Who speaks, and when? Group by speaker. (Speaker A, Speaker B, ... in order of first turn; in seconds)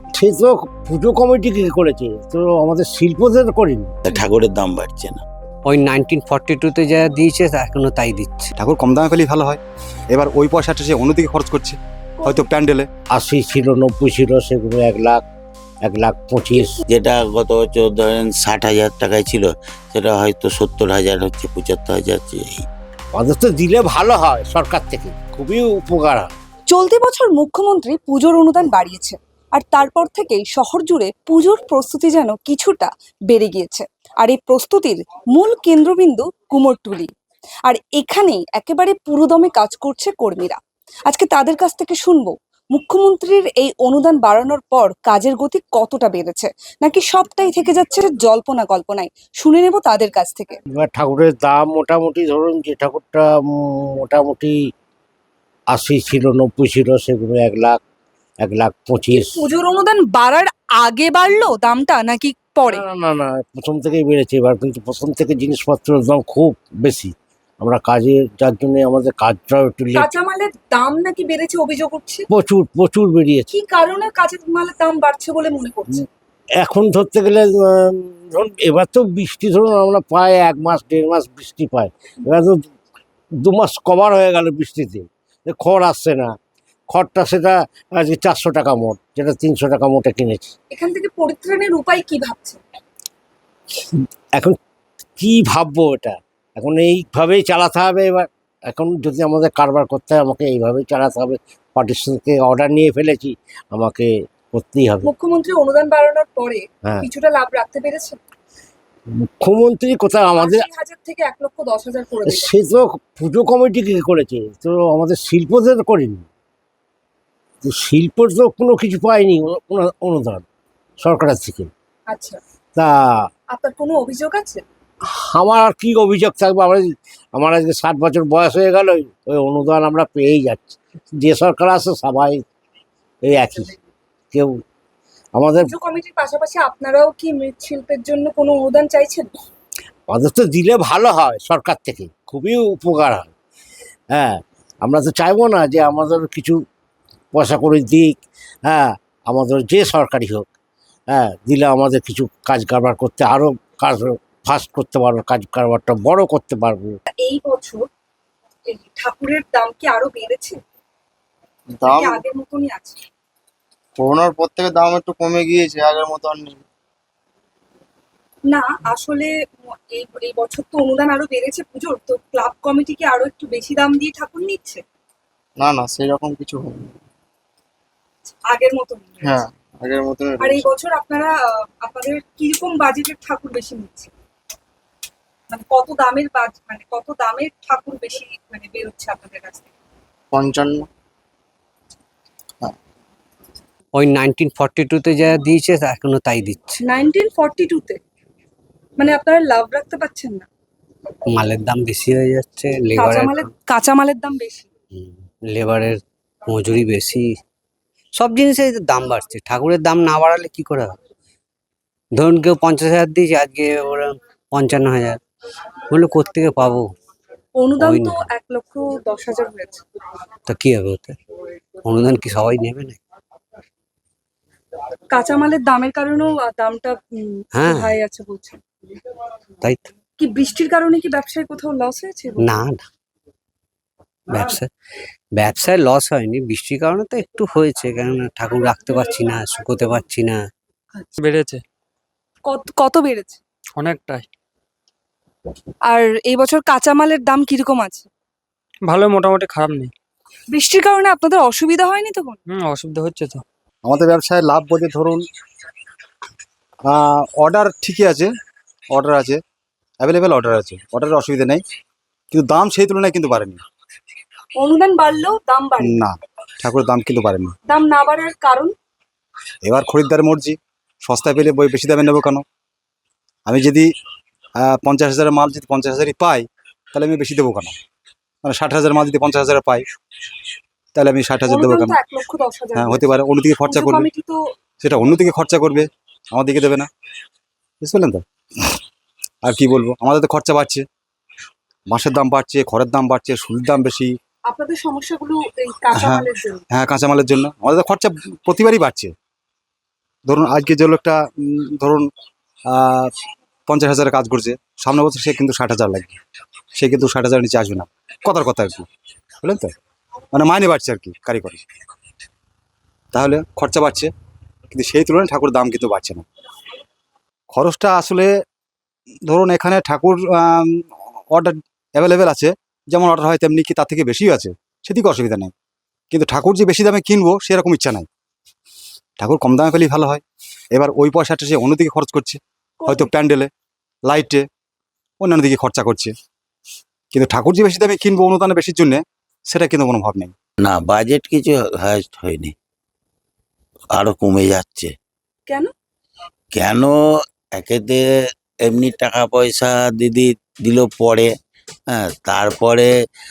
Speaker A: 0.1-3.9, 13.1-15.2, 15.8-16.8, 23.1-26.3, 50.7-54.5, 55.7-57.8, 58.4-59.4, 62.6-70.1, 72.3-73.5, 76.6-82.7, 83.4-86.3, 86.9-90.5, 95.2-105.1, 109.2-110.7, 112.2-116.2, 117.6-120.4, 121.0-121.7, 122.8-123.3, 125.1-132.4, 133.2-133.7, 134.3-134.6, 135.3-135.7, 140.1-143.3, 144.1-146.6, 147.3-148.1, 148.7-150.5, 151.1-157.0
Speaker B: 4.0-5.2, 16.9-22.6, 340.6-342.5, 343.9-344.9, 346.5-346.9, 347.6-348.0, 348.6-351.3, 351.9-352.9
Speaker C: 5.7-8.5, 193.9-196.8, 201.3-203.5, 204.9-207.3, 208.1-210.9, 212.2-215.2, 215.9-216.9, 217.8-218.3, 220.5-221.2, 221.8-223.0, 227.5-228.0, 229.6-229.9, 232.4-232.8, 234.3-234.7, 235.3-240.4
Speaker D: 8.6-9.6, 10.1-12.9, 253.8-255.2, 256.9-258.3, 258.9-259.4, 260.0-261.6, 262.3-263.6, 265.8-267.5, 269.6-272.4, 273.4-273.9, 274.6-277.7, 278.4-279.8, 280.9-282.0, 282.7-284.1, 284.8-286.9, 287.8-288.8, 289.4-290.8, 291.9-294.1, 295.9-299.1, 300.3-302.1, 302.7-303.1, 303.7-306.2, 306.8-308.9, 309.4-309.7, 310.3-311.6, 313.1-314.1, 314.7-316.2, 317.5-318.3, 319.3-325.5, 326.1-328.1, 329.2-330.2, 330.7-333.5, 334.1-334.4, 335.2-336.1, 337.1-340.3
Speaker E: 12.2-12.5, 16.5-16.8, 26.7-37.1, 37.6-50.6, 59.1-62.8, 70.0-72.2, 73.5-76.0, 90.7-92.6, 105.0-108.2, 110.3-112.5, 122.1-122.4, 123.5-124.6, 135.6-139.3, 157.2-157.8, 158.7-160.6, 161.9-163.0, 168.5-174.8, 178.3-179.4, 180.4-184.1, 185.5-189.7, 196.8-198.0, 199.0-200.4, 202.9-204.7, 217.6-219.8, 225.1-228.6, 230.2-232.5, 242.4-243.4, 245.9-248.1, 250.5-252.4, 264.6-266.0, 267.7-268.7, 281.4-284.5, 294.5-296.6, 332.8-333.1
Speaker F: 161.7-162.2, 164.0-166.6, 175.6-176.9, 179.2-180.7, 190.3-190.9
Speaker G: 241.2-241.6, 243.8-244.2, 248.9-249.9, 252.5-253.4